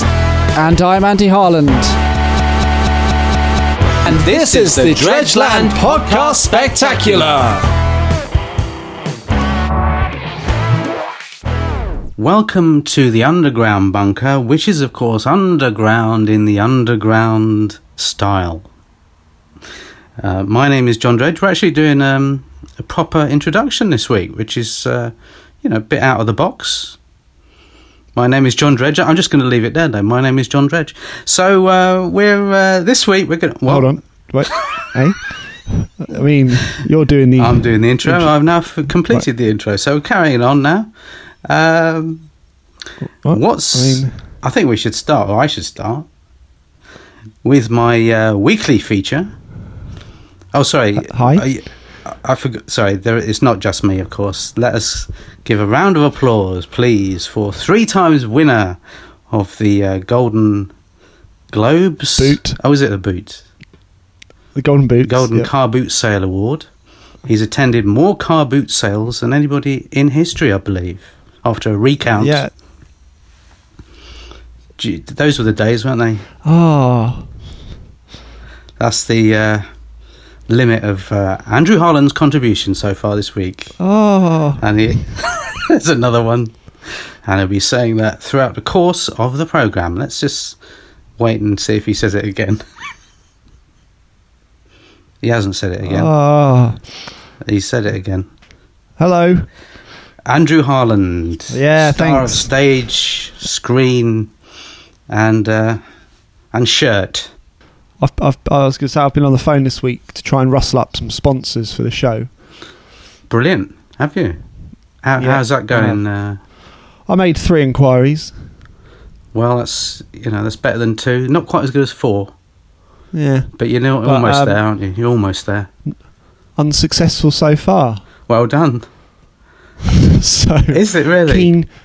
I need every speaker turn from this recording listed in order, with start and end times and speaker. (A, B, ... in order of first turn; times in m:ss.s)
0:00.5-0:02.0 A
0:04.0-0:07.4 B
0:04.0-0:07.7 A
0:12.2-0:18.7 B
0:20.2-0:27.0 B
0:28.1-0:33.9 B
0:33.7-0:38.3 A
0:37.4-0:40.9 B
0:41.4-0:42.2 B
0:43.2-0:44.2 A
0:43.3-0:46.1 B
0:47.4-0:49.3 B
0:50.5-0:58.8 B
0:51.0-0:51.4 A
0:59.3-1:00.7 B
1:01.5-1:03.4 B
1:02.2-1:02.6 A
1:04.5-1:05.5 A
1:05.0-1:06.7 B
1:07.2-1:12.4 B
1:12.2-1:12.5 A
1:14.8-1:16.2 B
1:16.4-1:17.2 A
1:18.8-1:19.6 B
1:20.5-1:23.7 B
1:23.8-1:24.6 A
1:24.6-1:30.6 B
1:31.2-1:32.6 B
1:35.2-1:36.1 B
1:35.8-1:36.8 A
1:37.4-1:38.3 B
1:39.0-1:39.5 A
1:40.2-1:44.3 B
1:41.5-1:42.5 A
1:45.1-1:45.8 B
1:46.5-1:47.3 B
1:48.0-1:52.3 A
1:53.3-1:54.4 B
1:55.0-1:56.4 B
1:55.2-1:56.0 A
1:57.1-1:58.3 A
1:59.3-2:02.3 B
2:03.1-2:03.5 A
2:03.6-2:05.7 B
2:04.0-2:04.6 A
2:06.6-2:08.0 A
2:08.3-2:08.8 B
2:09.9-2:11.7 A
2:10.7-2:11.5 B